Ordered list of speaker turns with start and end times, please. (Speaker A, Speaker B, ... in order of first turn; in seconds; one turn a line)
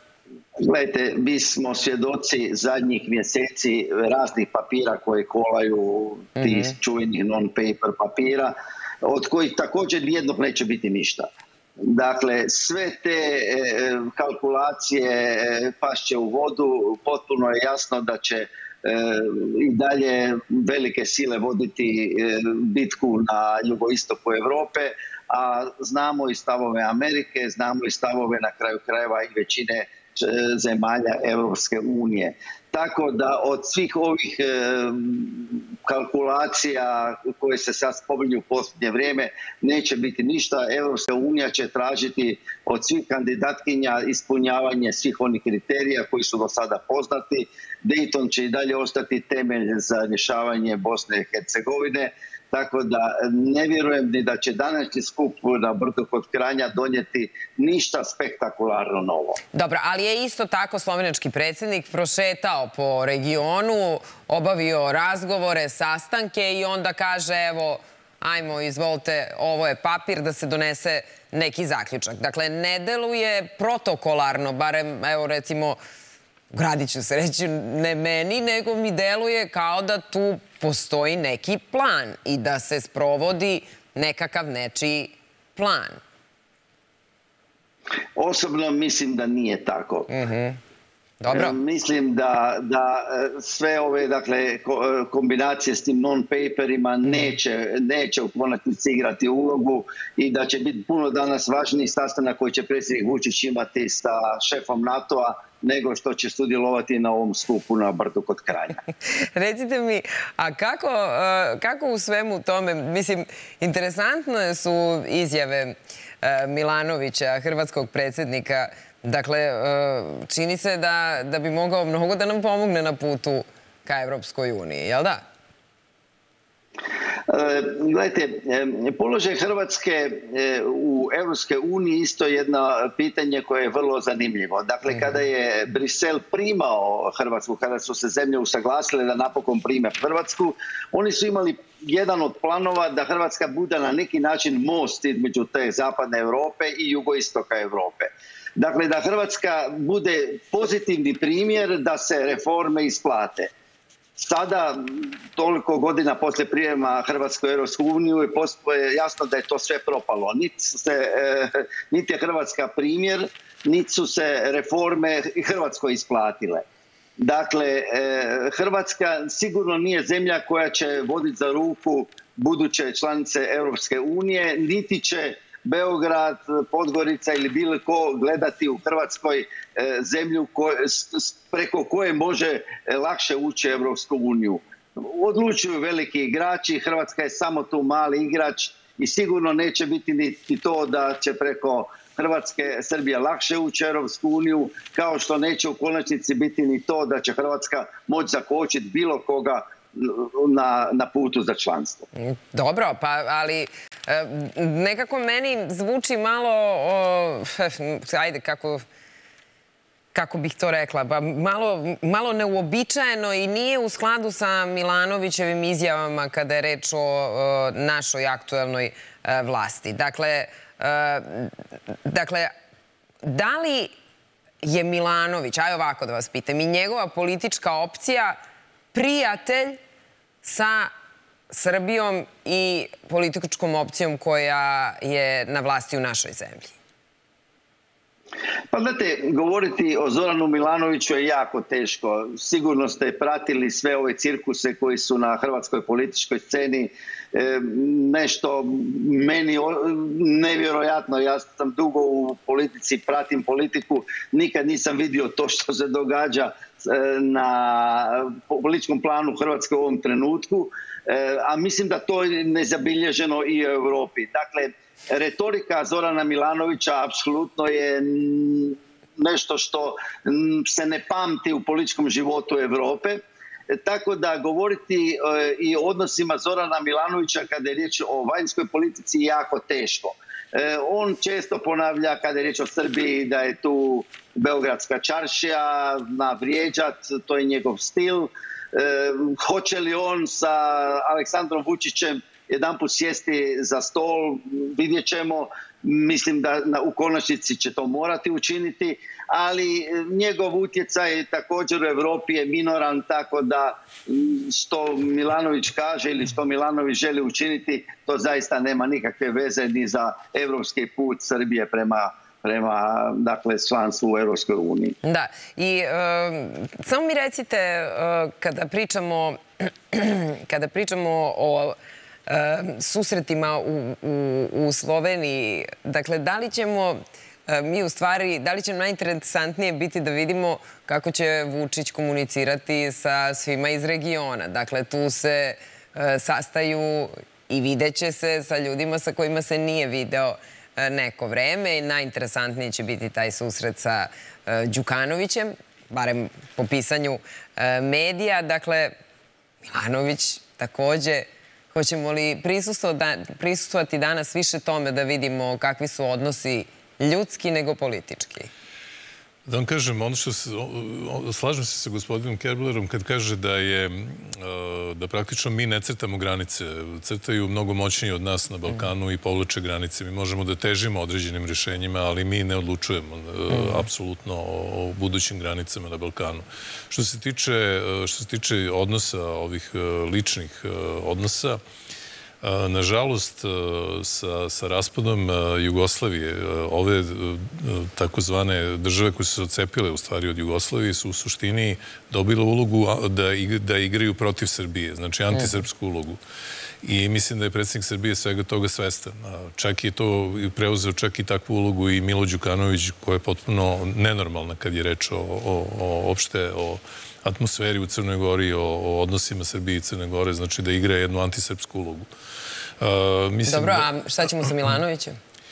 Speaker A: 0.6-59.4
Speaker B: 6.4-6.7
Speaker B: 59.5-75.8
Speaker B: 76.5-86.0
Speaker A: 88.2-90.1
Speaker B: 90.1-90.6
Speaker B: 91.2-91.6
Speaker A: 91.3-108.8
Speaker B: 109.2-125.2
Speaker A: 127.3-153.5
Speaker A: 154.2-166.7
Speaker A: 167.2-202.1
Speaker B: 202.2-208.8
Speaker B: 210.1-222.5
Speaker B: 223.2-223.9
Speaker B: 224.6-228.4
Speaker B: 228.9-229.8
Speaker B: 230.4-230.9
Speaker B: 231.5-236.7
Speaker A: 238.7-315.0
Speaker B: 315.0-321.8
Speaker B: 322.3-348.9
Speaker B: 349.7-358.5
Speaker C: 359.5-381.6
Speaker B: 373.5-373.9
Speaker C: 382.4-396.2
Speaker B: 395.3-395.6
Speaker C: 396.8-412.1
Speaker C: 412.8-413.9
Speaker B: 413.5-415.2